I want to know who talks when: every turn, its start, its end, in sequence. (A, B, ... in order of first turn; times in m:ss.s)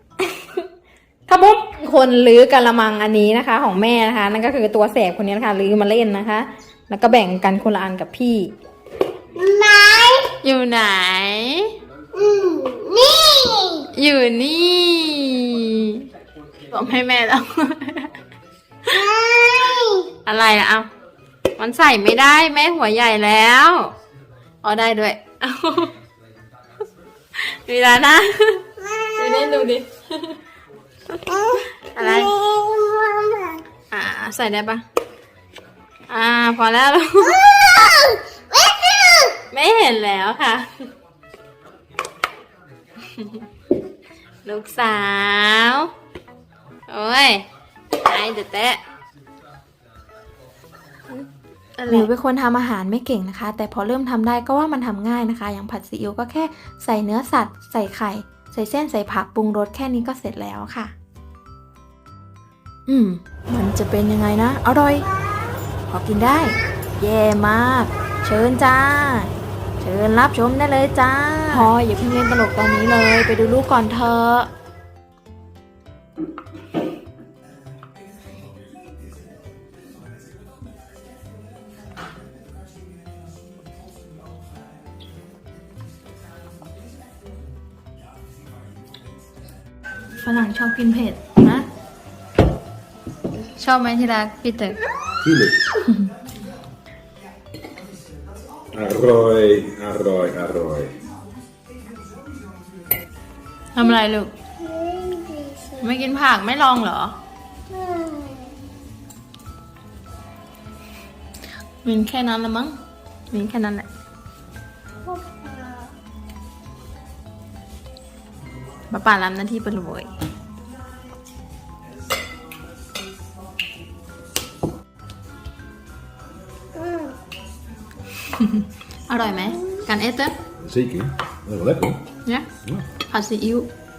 0:01.3-0:08.5 A
0:09.4-0:10.3 B
0:10.4-0:11.7 A
0:12.1-0:13.8 B
0:13.9-0:16.0 A
0:16.7-0:18.1 A
0:18.9-0:20.1 B
0:20.2-0:20.9 A
0:21.6-0:23.9 A
0:24.6-0:25.9 A
0:27.4-0:28.6 A
0:28.8-0:29.7 B
0:29.2-0:30.3 A
0:31.3-0:33.6 B
0:31.9-0:32.3 A
0:33.9-0:34.8 A
0:36.1-0:37.4 A
0:37.3-0:39.4 B
0:39.5-0:40.7 A
0:44.4-0:45.9 A
0:46.9-0:47.4 A
0:48.0-0:48.8 A
0:51.8-1:00.9 A
1:02.9-1:05.1 A
1:05.1-1:05.5 B
1:05.9-1:14.5 A
1:30.2-1:31.7 A
1:33.6-1:34.8 A
1:35.2-1:35.6 C
1:38.7-1:41.0 C
1:43.8-1:44.3 A
1:44.6-1:45.9 B
1:45.8-1:47.2 A
1:47.7-1:48.5 B
1:51.8-1:52.8 A
1:53.3-1:53.9 A
1:55.0-1:55.9 B
1:58.9-2:00.1 A
2:06.8-2:07.1 B
2:09.1-2:10.4 A
2:10.6-2:12.0 C
2:13.1-2:13.7 A